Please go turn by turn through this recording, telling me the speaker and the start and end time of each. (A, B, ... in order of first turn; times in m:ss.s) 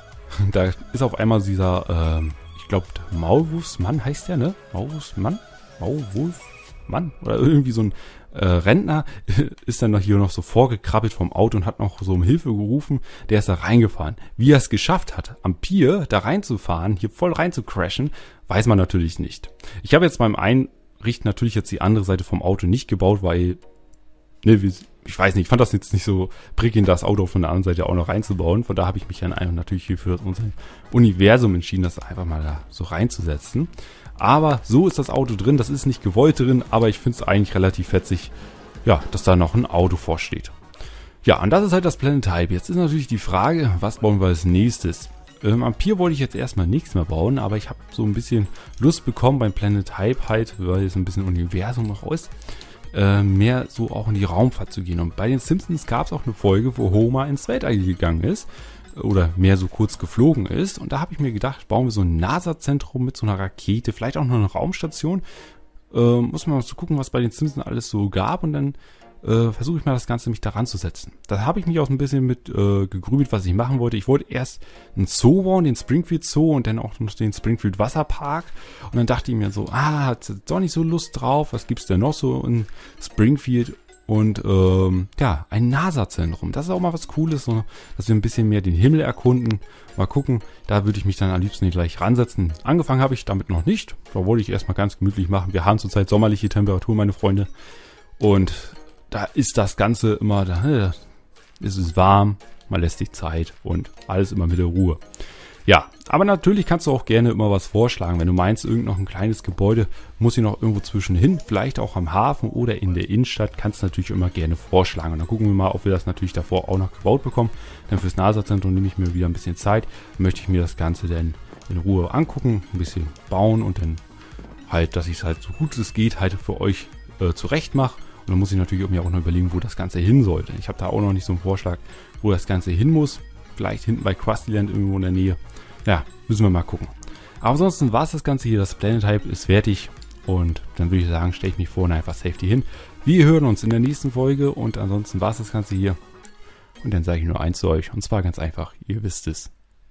0:00.3-0:23.6 A
0:24.4-0:38.3 A
0:38.8-0:40.6 A
0:41.2-0:52.3 A
0:52.9-1:05.2 A
1:05.9-1:37.5 A
1:38.2-1:41.0 A
1:41.6-1:45.0 A
1:45.7-2:04.0 A
2:04.7-2:26.0 A
2:26.8-2:29.5 A